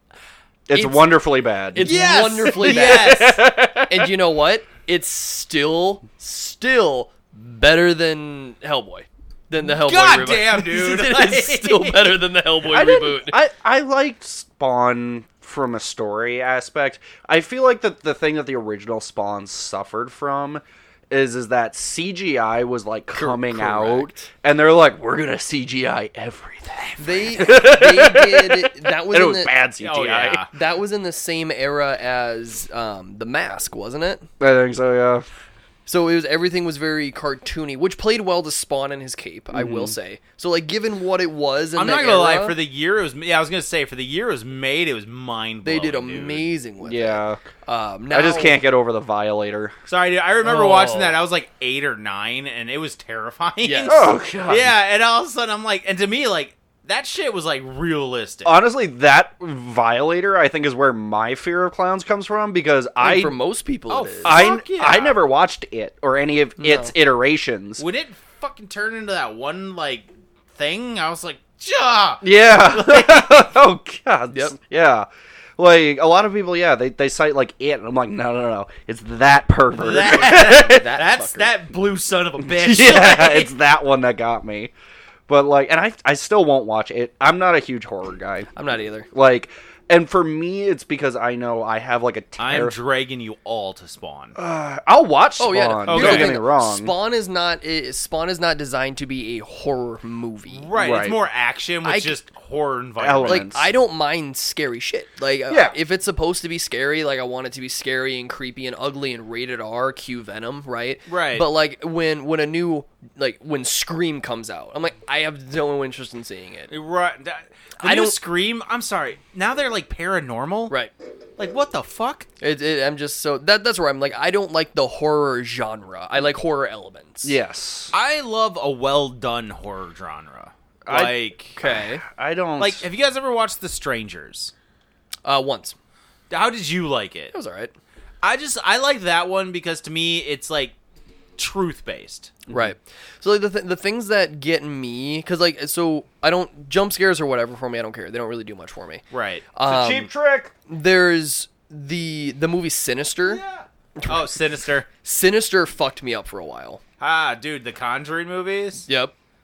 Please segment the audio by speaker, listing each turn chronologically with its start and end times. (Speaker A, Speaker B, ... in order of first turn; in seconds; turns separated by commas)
Speaker A: 0.7-4.1, Speaker B: 0.7-1.1, Speaker B: 1.7-13.4, Speaker C: 1.8-3.4, Speaker C: 9.6-12.3, Speaker A: 12.7-30.4, Speaker B: 23.1-24.3, Speaker B: 27.0-29.5, Speaker C: 29.8-30.5, Speaker B: 30.5-34.3, Speaker A: 34.4-35.3, Speaker B: 35.9-42.6, Speaker A: 39.5-39.9, Speaker C: 41.8-46.5, Speaker B: 45.6-48.6, Speaker A: 46.8-47.4, Speaker A: 48.1-49.7, Speaker C: 49.9-58.5, Speaker B: 50.4-51.1, Speaker B: 53.6-54.1, Speaker A: 53.9-54.7, Speaker A: 58.5-63.4, Speaker B: 63.0-64.4, Speaker C: 63.9-65.2, Speaker A: 64.2-67.8, Speaker B: 66.6-66.9, Speaker C: 67.8-73.5, Speaker A: 72.2-75.1, Speaker A: 75.6-80.8, Speaker C: 79.8-83.5, Speaker B: 80.1-81.5, Speaker A: 82.4-84.7, Speaker A: 85.3-88.5, Speaker B: 88.5-89.1, Speaker A: 89.1-92.8, Speaker C: 92.4-94.3, Speaker A: 94.4-96.9, Speaker B: 95.4-100.7, Speaker C: 95.9-96.4, Speaker C: 100.5-103.6, Speaker A: 100.7-101.2, Speaker B: 101.8-102.2, Speaker A: 103.0-103.7, Speaker B: 103.2-116.7, Speaker A: 105.5-105.8, Speaker C: 111.1-111.5, Speaker C: 116.7-120.7, Speaker B: 117.8-118.2, Speaker C: 121.4-122.3, Speaker B: 122.4-127.3, Speaker A: 127.2-127.9, Speaker C: 127.9-131.6, Speaker A: 130.9-132.9, Speaker B: 131.6-132.0, Speaker C: 132.6-134.5, Speaker B: 135.2-135.8, Speaker C: 136.3-137.3, Speaker B: 137.3-137.7, Speaker C: 138.2-140.8, Speaker C: 141.4-142.3, Speaker A: 142.5-142.7, Speaker B: 142.5-150.1, Speaker C: 149.1-149.5, Speaker A: 149.7-150.5, Speaker B: 150.7-153.4, Speaker C: 153.2-154.9, Speaker B: 154.0-154.4, Speaker B: 154.9-156.8, Speaker C: 157.0-158.9, Speaker B: 158.9-159.1